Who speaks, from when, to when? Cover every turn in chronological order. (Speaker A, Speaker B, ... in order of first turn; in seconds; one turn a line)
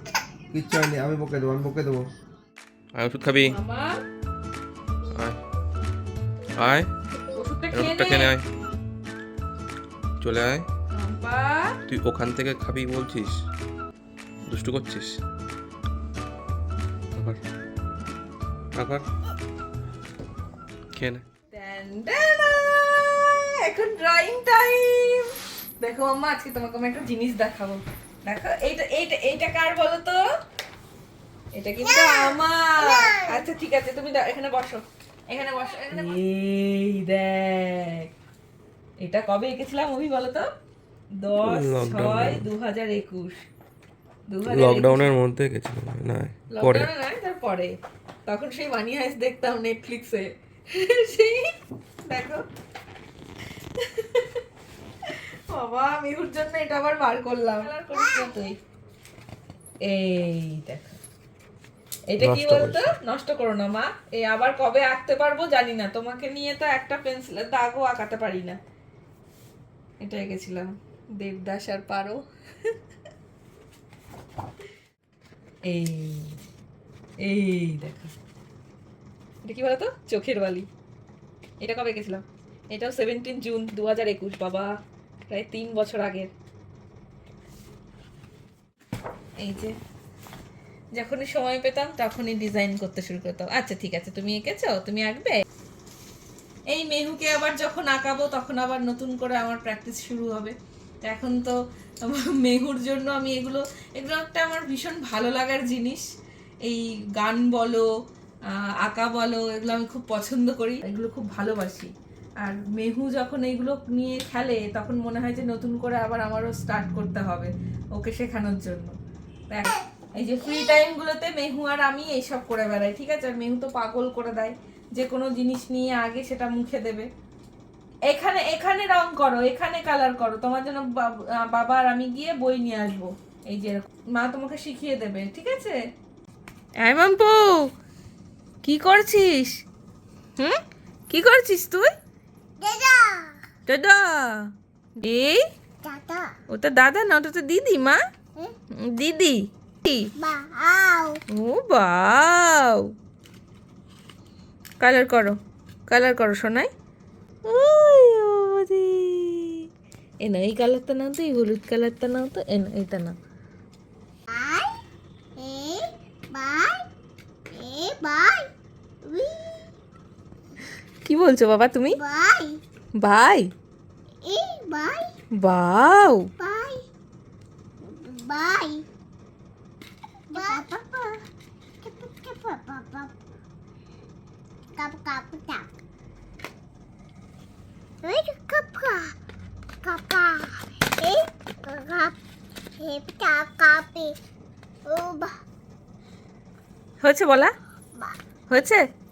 Speaker A: 0.5-2.0
Speaker B: 3.0-3.6
Speaker C: 3.5-4.0
Speaker B: 6.6-6.9
Speaker C: 7.3-8.3
Speaker B: 7.7-8.5
Speaker B: 10.2-10.7
Speaker C: 10.9-11.8
Speaker B: 11.9-13.4
Speaker B: 14.5-15.2
Speaker B: 17.1-17.4
Speaker B: 18.8-19.1
Speaker B: 20.9-21.2
Speaker C: 21.5-30.3
Speaker C: 31.5-38.1
Speaker D: 31.8-33.4
Speaker C: 39.0-40.5
Speaker C: 41.2-43.4
Speaker B: 41.5-42.5
Speaker C: 44.3-45.1
Speaker A: 44.5-46.8
Speaker B: 45.2-45.9
Speaker C: 46.5-47.8
Speaker C: 48.3-51.5
Speaker C: 52.1-52.4
Speaker C: 53.8-54.4
Speaker C: 55.1-58.5
Speaker D: 57.9-58.3
Speaker C: 59.9-61.0
Speaker C: 62.1-68.6
Speaker B: 62.2-62.9
Speaker C: 70.0-72.2
Speaker C: 75.7-76.4
Speaker C: 77.2-78.1
Speaker C: 79.4-80.7
Speaker C: 81.6-84.7
Speaker C: 85.3-86.3
Speaker C: 89.4-89.7
Speaker C: 90.9-95.4
Speaker C: 96.7-106.0
Speaker C: 106.6-107.9
Speaker C: 108.5-119.0
Speaker C: 119.5-127.1
Speaker C: 128.1-135.8
Speaker C: 136.8-137.7
Speaker C: 138.6-139.6
Speaker C: 141.1-141.9
Speaker D: 142.6-143.4
Speaker C: 143.7-145.4
Speaker D: 145.8-146.3
Speaker C: 146.5-148.0
Speaker C: 148.8-150.1
Speaker D: 150.2-151.2
Speaker C: 151.3-152.9
Speaker C: 154.8-155.4
Speaker C: 155.9-156.7
Speaker C: 157.4-159.6
Speaker C: 160.2-163.2
Speaker D: 164.3-164.8
Speaker D: 165.4-166.9
Speaker D: 167.5-168.5
Speaker D: 169.1-169.7
Speaker C: 171.1-172.0
Speaker D: 172.0-172.6
Speaker C: 173.0-173.5
Speaker D: 174.2-175.1
Speaker C: 175.4-176.3
Speaker D: 176.4-176.8
Speaker D: 177.8-178.8
Speaker D: 180.3-181.2
Speaker D: 181.8-183.1
Speaker D: 184.8-185.7
Speaker D: 188.0-189.1
Speaker D: 189.8-192.2
Speaker D: 192.8-194.2
Speaker D: 194.9-195.4
Speaker C: 197.0-197.5
Speaker C: 198.5-198.8